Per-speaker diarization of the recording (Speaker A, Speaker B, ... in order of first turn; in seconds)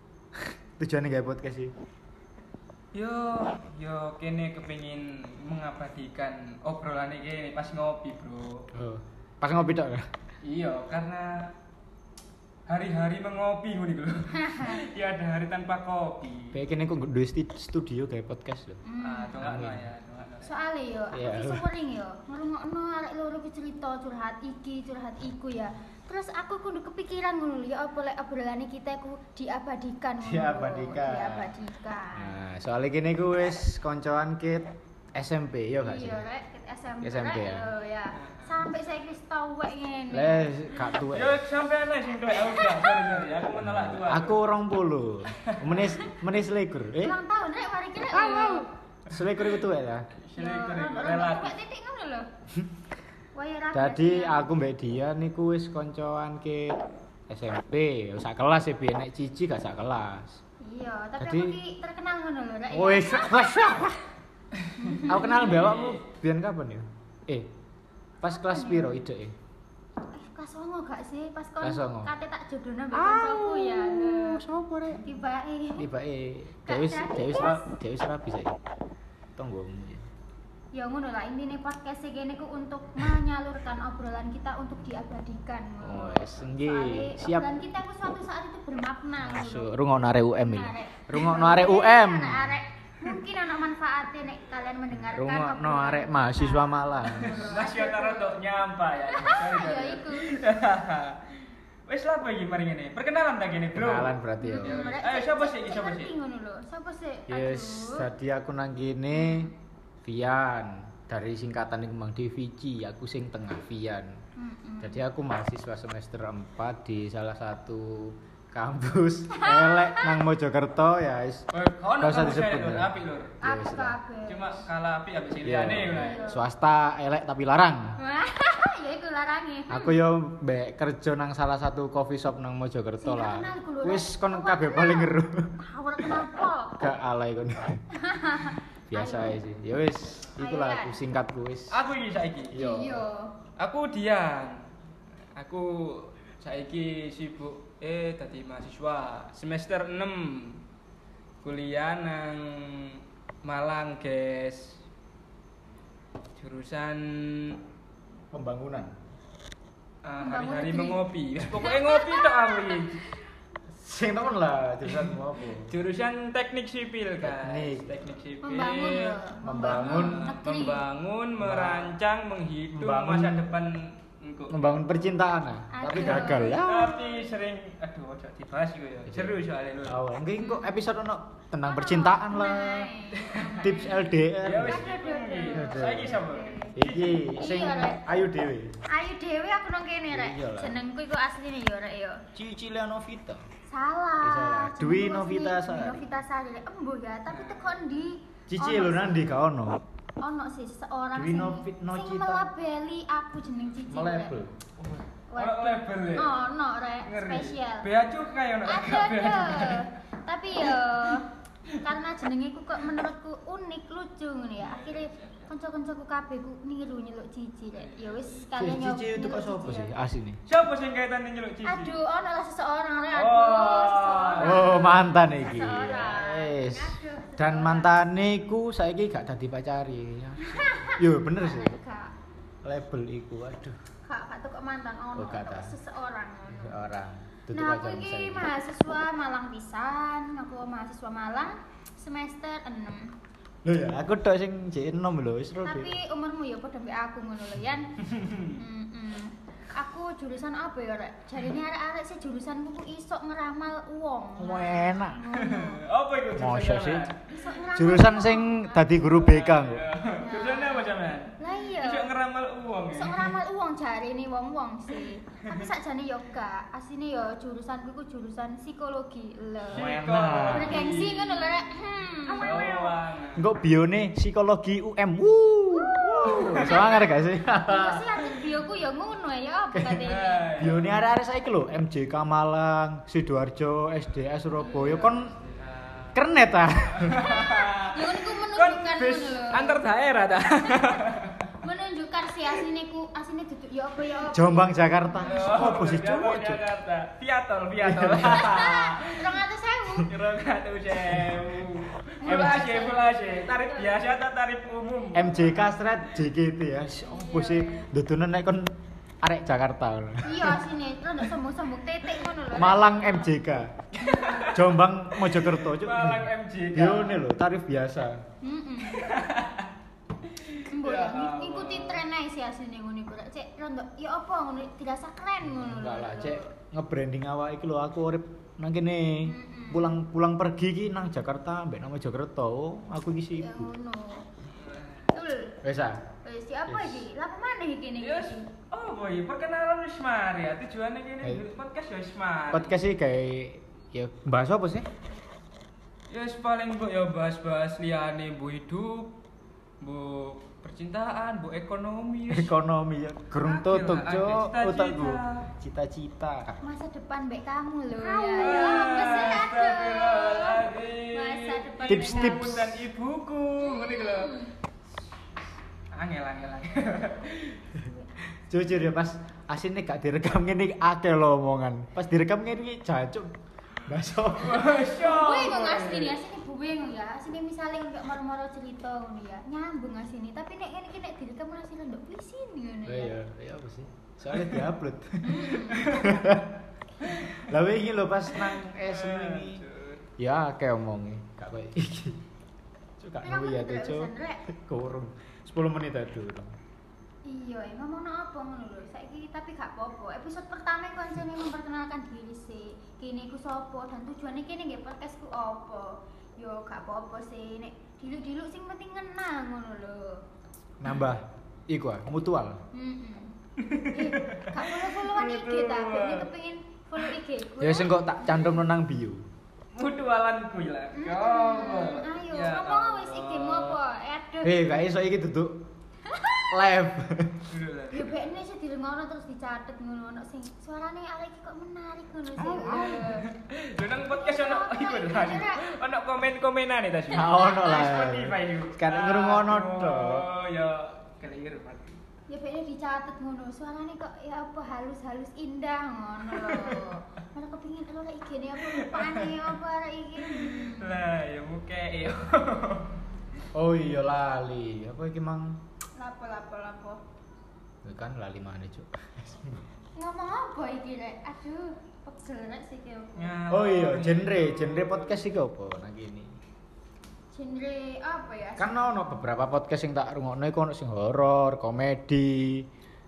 Speaker A: 0.4-1.7, 8.7-10.1, 16.5-18.8, 19.4-19.9, 21.1-21.6, 30.2-31.5, 32.1-36.2, 37.0-37.7, 40.1-41.4, 43.6-47.1, 48.1-50.1, 53.7-60.4, 61.2-61.6, 62.7-64.0, 65.1-67.5, 68.2-69.4, 71.6-72.1, 72.9-75.0, 75.8-78.6, 79.4-80.0, 85.8-87.5, 89.2-92.6, 94.9-97.5, 103.7-104.9, 107.3-109.5, 110.0-114.1, 114.8-121.5, 122.0-124.0, 125.4-128.0, 129.7-136.1, 136.8-137.8, 138.9-141.8, 142.5-143.0, 158.3-158.9, 163.7-165.7, 167.2-168.2, 169.4-170.3, 171.4-171.9, 172.7-173.5, 174.5-176.9, 179.1-184.9, 185.5-188.8, 190.1-190.8, 192.3-193.4, 194.2-196.1, 198.5-199.8, 201.2-202.5, 203.9-204.5, 218.6-220.4, 224.4-231.7, 232.6-233.8, 235.2-235.8, 236.5-238.5, 243.6-245.9, 254.4-255.2, 256.4-257.1, 257.8-259.9, 269.7-270.8, 273.4-278.1, 279.8-280.0, 280.6-285.3, 286.1-287.3, 294.3-296.6, 297.8-298.5, 301.1-301.7, 302.2-302.6, 305.1-310.6, 312.5-313.8, 314.5-318.2, 325.4-333.7, 335.6-336.0, 336.7-337.1, 342.5-344.9, 352.3-356.6, 361.9-362.9, 368.5-373.3, 373.8-374.7, 382.9-389.6, 390.2-392.2, 393.0-396.5, 410.8-412.6, 417.6-419.2, 424.4-425.7, 426.5-427.5, 432.4-433.1, 437.1-440.3, 453.5-455.6, 457.8-459.6, 463.5-466.4, 468.6-472.7
Speaker B: 2.9-8.7, 10.4-11.5, 12.7-16.6, 19.0-20.6, 38.4-38.6, 40.8-44.4, 45.4-45.9, 49.2-49.6, 50.2-51.6, 64.7-66.0, 97.1-101.2, 101.9-106.1, 121.5-123.4, 124.3-126.4, 141.7-142.6, 143.6-144.7, 145.3-150.6, 151.4-154.8, 156.4-157.6, 160.0-163.0, 164.9-174.8, 176.0-180.0, 184.4-187.2, 197.3-197.8, 204.8-206.4, 207.1-209.9, 214.6-215.5, 217.7-218.5, 220.5-222.0, 223.2-225.0, 248.1-248.6, 255.3-257.2, 259.0-263.4, 269.7-271.5, 272.3-273.5, 276.3-276.8, 280.1-281.0, 284.6-286.2, 286.9-291.5, 295.2-299.4, 300.0-305.8, 314.0-317.2, 318.9-319.7, 320.3-322.1, 334.6-335.1, 338.0-342.8, 346.1-349.2, 349.8-352.5, 353.4-355.5, 358.0-364.4, 365.9-367.7, 374.3-376.2, 384.4-384.6, 385.7-386.2, 388.3-390.1, 413.6-416.3, 419.7-423.8, 427.5-428.1, 432.7-442.0, 446.3-446.9, 448.7-449.4, 450.2-453.0, 463.2-465.3
Speaker C: 14.3-14.8, 18.9-19.4, 20.4-32.3, 35.8-40.5, 42.4-43.0, 47.0-48.7, 50.4-52.3, 53.4-54.5, 60.6-63.7, 64.8-65.5, 68.3-69.0, 70.1-74.4, 75.0-75.9, 76.7-77.7, 80.7-98.4, 99.1-100.3, 104.4-108.1, 109.1-109.5, 114.4-115.0, 119.3-120.2, 123.4-124.6, 125.9-126.4, 128.0-130.0, 133.0-136.8, 137.9-139.4, 140.4-141.1, 142.5-143.3, 160.2-163.1, 168.4-170.8, 175.7-177.2, 180.4-180.8, 181.6-184.1, 184.6-188.2, 188.9-192.2, 193.7-199.2, 200.2-204.4, 205.3-207.9, 208.7-211.3, 211.8-219.9, 221.6-228.1, 230.4-232.1, 234.1-236.8, 237.5-243.2, 245.6-247.9, 248.5-255.8, 257.3-259.1, 260.2-262.1, 262.9-269.9, 270.5-272.9, 275.7-280.7, 287.1-289.9, 291.6-295.5, 298.3-300.1, 302.2-304.0, 307.0-307.9, 310.2-313.3, 318.4-319.1, 320.7-326.5, 329.2-330.0, 333.4-334.3, 335.1-335.6, 336.2-338.5, 356.6-362.6, 363.6-364.5, 367.8-368.1, 374.7-383.2, 385.2-386.2, 393.2-394.4, 397.2-410.2, 412.7-413.3, 413.9-418.7, 420.9-424.6, 426.1-426.6, 427.9-433.3, 434.0-435.6, 437.2-437.9, 442.3-451.0, 456.0-457.0, 460.0-463.4, 467.3-468.9